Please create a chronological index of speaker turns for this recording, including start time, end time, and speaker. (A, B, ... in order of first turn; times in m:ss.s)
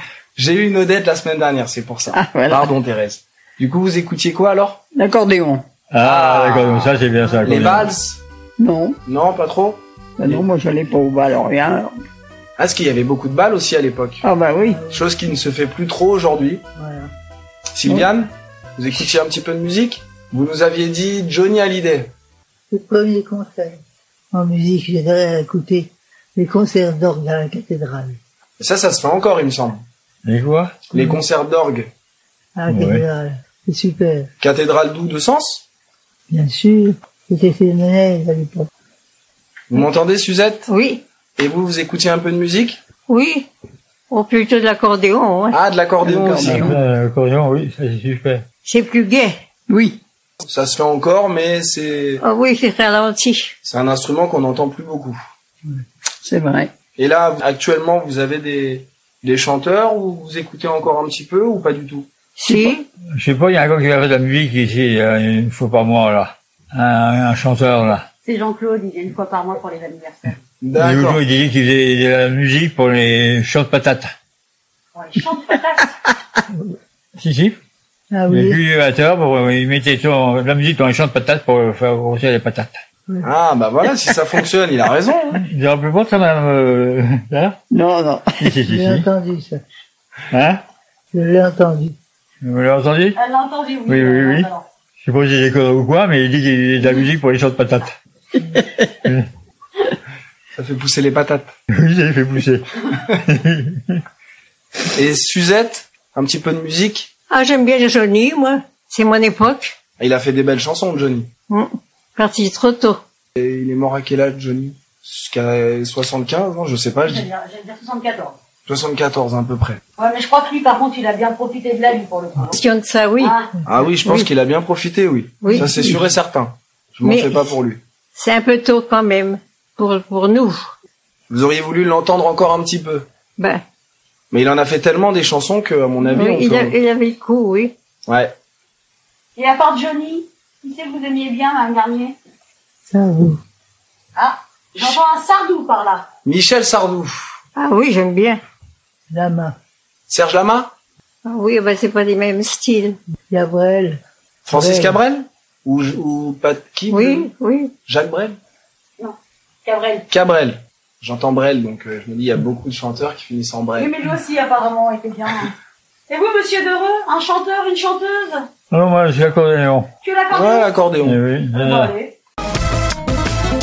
0:00.4-0:04.8 A
0:02.1-0:02.7 B
0:05.0-0:05.6 B
0:05.9-0:07.9 C
0:06.0-0:08.2 A
0:08.6-0:09.0 B
0:09.1-0:10.4 A
0:10.2-0:11.9 B
0:12.6-0:14.2 A
0:14.2-0:14.8 B
0:14.6-0:15.1 D
0:14.9-0:16.6 A
0:16.8-0:17.1 D
0:17.7-0:22.1 A
0:22.7-0:23.8 D
0:24.3-0:28.2 D
0:28.6-0:29.8 A
0:30.2-0:30.8 C
0:30.9-0:31.9 A
0:32.6-0:34.3 D
0:32.7-0:33.0 C
0:34.4-0:35.6 A
0:36.3-0:38.7 D
0:39.7-0:40.7 A
0:40.7-0:41.0 E
0:41.4-0:42.8 A
0:43.1-0:43.5 E
0:44.1-0:45.6 E
0:45.5-0:46.8 A
0:46.0-0:46.8 B
0:46.4-0:48.5 C
0:48.6-0:49.4 E
0:49.7-0:50.0 B
0:50.5-0:52.2 A
0:52.2-0:53.5 E
0:53.6-0:55.2 A
0:56.2-0:56.7 B
0:57.0-1:02.1 A
1:02.4-1:02.9 E
1:02.4-1:02.8 B
1:03.2-1:08.1 C
1:08.2-1:10.4 F
1:10.6-1:11.2 A
1:10.8-1:14.1 C
1:15.0-1:16.0 F
1:17.2-1:17.6 C
1:18.1-1:18.6 D
1:18.3-1:22.8 C
1:23.2-1:25.4 A
1:25.4-1:27.6 C
1:27.7-1:28.4 B
1:28.4-1:29.1 C
1:28.7-1:29.6 D
1:30.3-1:30.6 C
1:31.1-1:32.0 D
1:32.4-1:33.2 C
1:33.2-1:34.7 F
1:33.9-1:38.0 C
1:38.6-1:38.8 B
1:38.9-1:39.3 C
1:40.6-1:41.5 A
1:41.7-1:44.0 C
1:44.9-1:47.1 A
1:47.3-1:49.8 E
1:50.0-1:51.3 A
1:51.5-1:53.0 E
1:53.4-1:57.3 A
1:57.0-1:58.4 F
1:58.7-1:59.8 A
2:00.0-2:02.6 F
2:02.5-2:03.4 E
2:03.2-2:03.5 F
2:03.7-2:07.8 A
2:04.0-2:04.3 E
2:05.4-2:05.9 E
2:07.0-2:07.5 E
2:08.2-2:10.7 E
2:11.3-2:13.1 A
2:13.4-2:13.6 E
2:14.3-2:16.8 A
2:16.0-2:17.7 E
2:18.1-2:18.3 A
2:19.4-2:22.2 F
2:22.9-2:23.4 D
2:24.2-2:26.1 F
2:26.2-2:27.4 A
2:27.6-2:28.4 E
2:29.1-2:29.6 D
2:30.1-2:30.7 A
2:31.2-2:33.0 E
2:33.3-2:34.0 D
2:34.5-2:37.3 A
2:34.5-2:35.0 D
2:36.9-2:37.7 E
2:37.9-2:38.4 A
2:39.0-2:40.1 F
2:40.1-2:43.9 A
2:43.8-2:45.5 F
2:46.1-2:48.5 F
2:48.7-2:49.9 C
2:50.0-2:50.7 F
2:50.3-2:51.2 A
2:51.0-2:51.9 C
2:51.5-2:52.2 F